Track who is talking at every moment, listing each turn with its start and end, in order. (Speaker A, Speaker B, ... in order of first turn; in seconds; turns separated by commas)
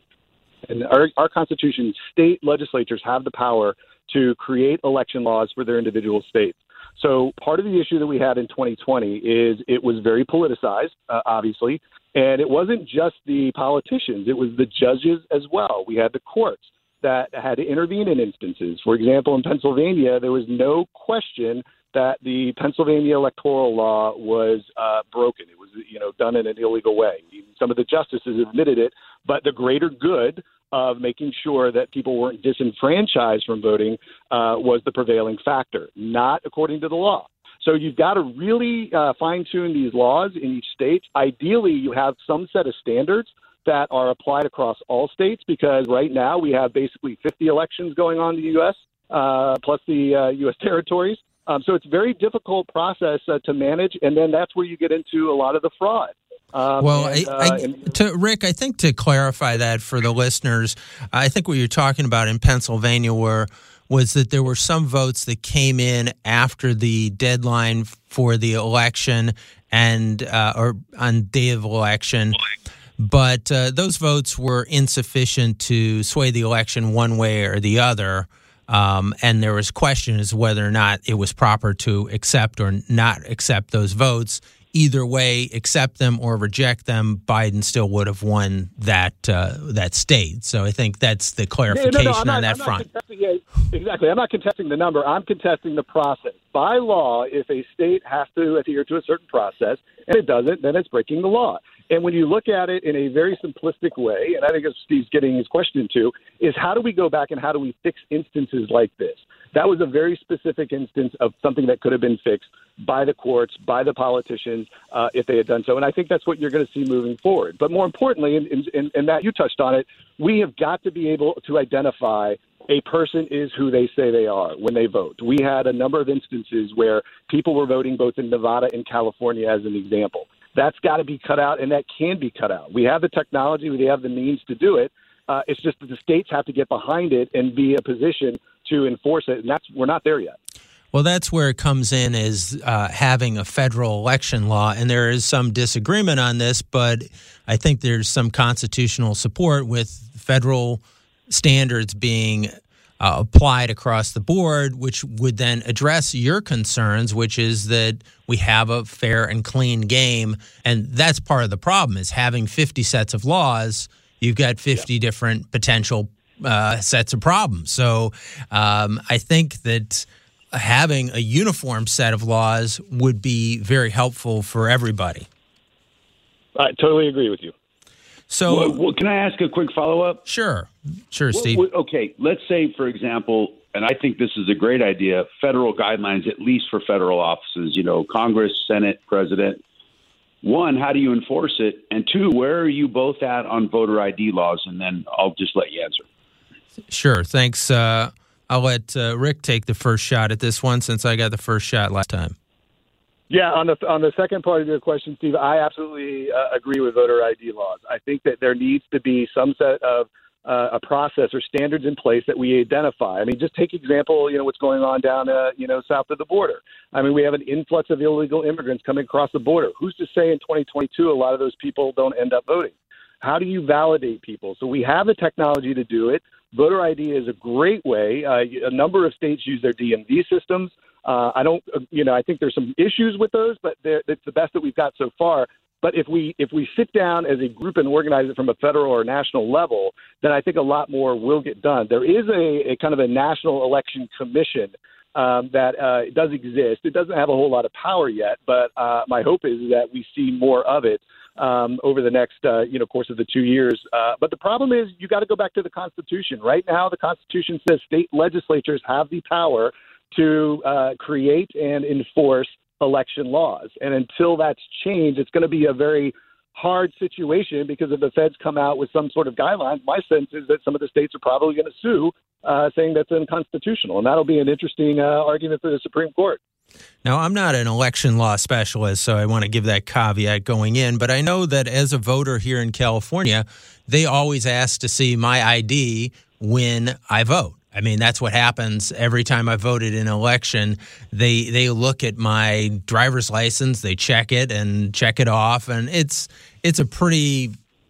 Speaker A: 0.7-57.9, Speaker B: 56.8-72.4, Speaker B: 73.0-92.8, Speaker A: 91.7-140.4, Speaker B: 140.9-175.3, Speaker A: 176.6-177.5, Speaker B: 178.3-178.8, Speaker C: 178.5-180.2, Speaker B: 180.3-181.6, Speaker C: 181.3-189.6, Speaker C: 190.4-196.0, Speaker B: 196.9-202.3, Speaker A: 203.3-276.4, Speaker B: 277.0-297.5